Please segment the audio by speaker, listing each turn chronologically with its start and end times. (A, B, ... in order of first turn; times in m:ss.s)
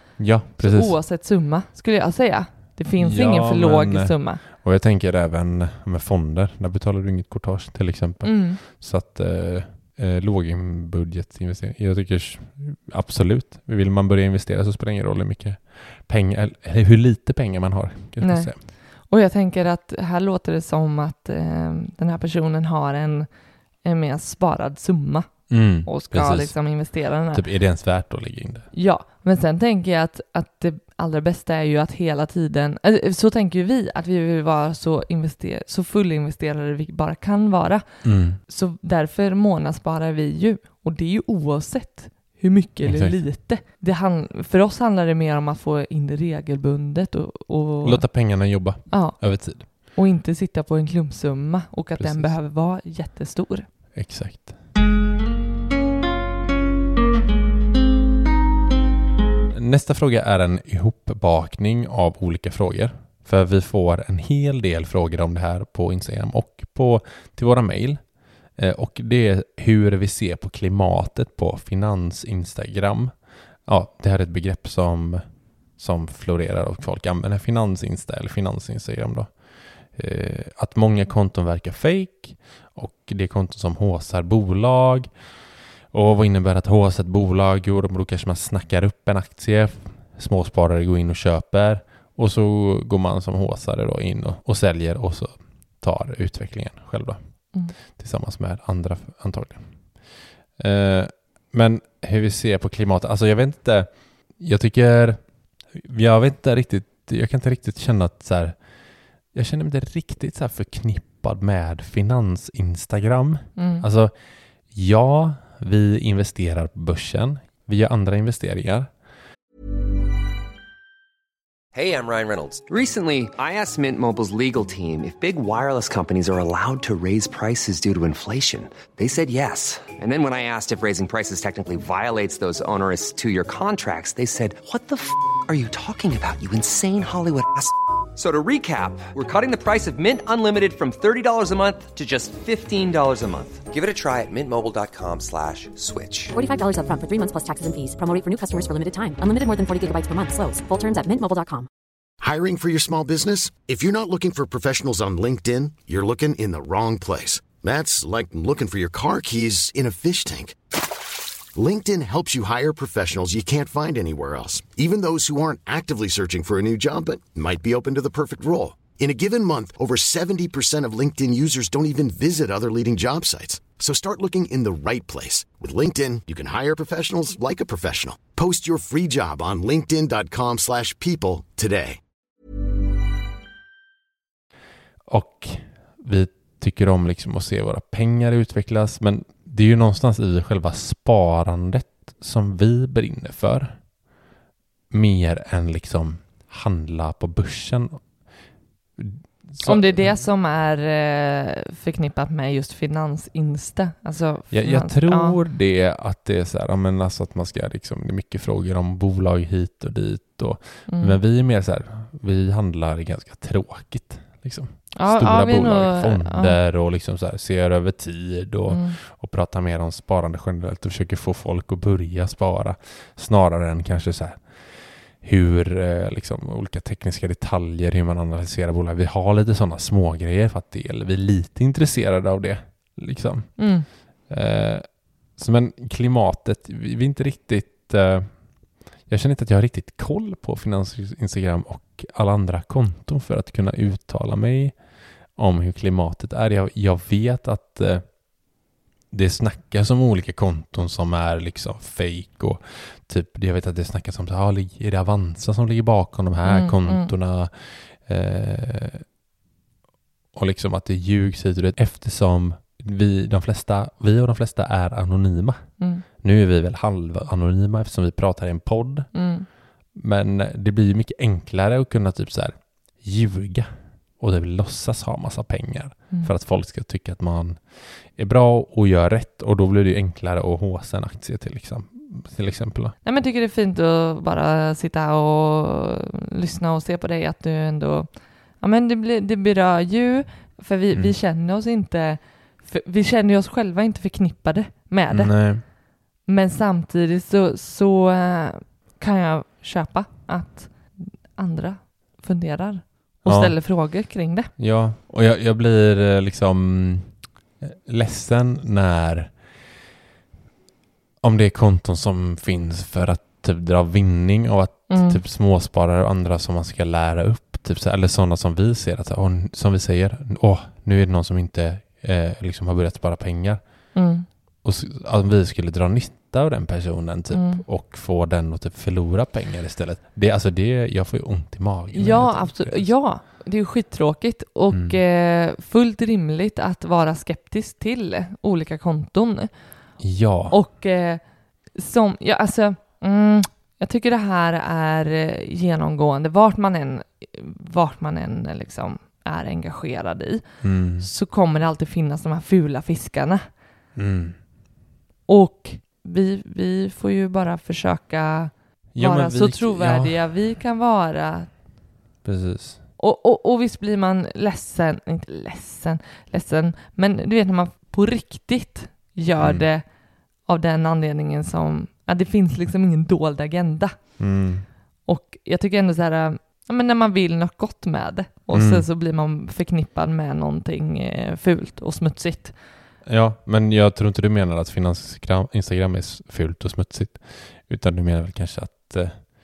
0:00.2-0:00.9 A
0:00.6-0:04.4 B
0:03.0-0:18.6 A
0:08.2-0:08.6 B
0:18.2-0:18.5 B
0:19.1-0:23.3 B
0:23.8-0:27.4 B
0:25.5-0:26.5 A
0:27.3-0:28.7 A
0:28.7-0:37.8 B
0:38.0-0:38.4 A
0:38.5-0:48.0 B
0:42.8-0:43.2 A
0:47.8-0:49.7 A
0:48.9-0:53.6 B
0:52.0-0:52.3 A
0:53.9-0:54.6 A
0:59.5-1:08.0 A
1:08.6-1:13.1 A
1:13.6-1:15.2 A
1:15.8-1:19.3 A
1:19.9-1:25.1 A
1:25.9-1:37.2 A
1:37.9-1:39.6 A
1:40.6-1:45.2 A
1:45.7-1:48.6 A
1:49.3-1:54.1 A
1:53.6-1:53.8 B
1:54.7-1:58.9 A
2:01.7-2:26.3 C
2:26.3-2:31.7 D
2:32.2-2:40.6 E
2:41.5-3:02.0 E
3:05.1-3:13.8 A
3:14.9-3:18.0 A
3:19.0-3:20.2 A
3:19.6-3:25.4 B
3:24.5-3:44.4 A
3:30.9-3:31.2 B
3:34.9-3:36.6 B
3:38.7-3:39.0 B
3:45.2-3:53.6 A
3:53.6-3:53.8 B
3:54.3-3:58.3 A
3:59.1-4:04.7 A
4:05.4-4:08.0 A
4:09.1-4:19.0 A
4:16.4-4:17.1 B
4:20.3-4:25.6 A
4:26.2-4:29.1 A
4:29.1-4:29.5 B
4:29.9-4:37.6 A
4:38.1-4:42.9 A
4:43.0-4:48.1 B
4:48.6-4:55.3 B
4:55.1-4:55.6 A
4:56.3-5:04.5 B
5:03.2-5:03.6 A
5:04.6-5:09.3 A
5:11.2-5:23.6 A
5:14.9-5:15.2 B
5:23.9-5:24.2 B
5:24.6-5:32.9 A
5:27.3-5:27.6 B
5:31.9-5:39.5 B
5:34.7-5:35.0 A
5:40.0-5:40.6 A
5:40.5-5:41.2 B
5:41.8-5:50.4 B
5:50.6-5:51.1 A
5:51.0-5:53.4 B
5:54.0-5:54.4 A
5:55.3-6:01.5 B
5:58.9-6:00.2 A
6:02.2-6:02.8 A
6:03.0-6:09.8 B
6:09.4-6:09.6 A
6:10.5-6:13.9 B
6:14.2-6:14.6 A
6:15.1-6:22.5 B
6:18.5-6:18.8 A
6:23.0-6:29.2 A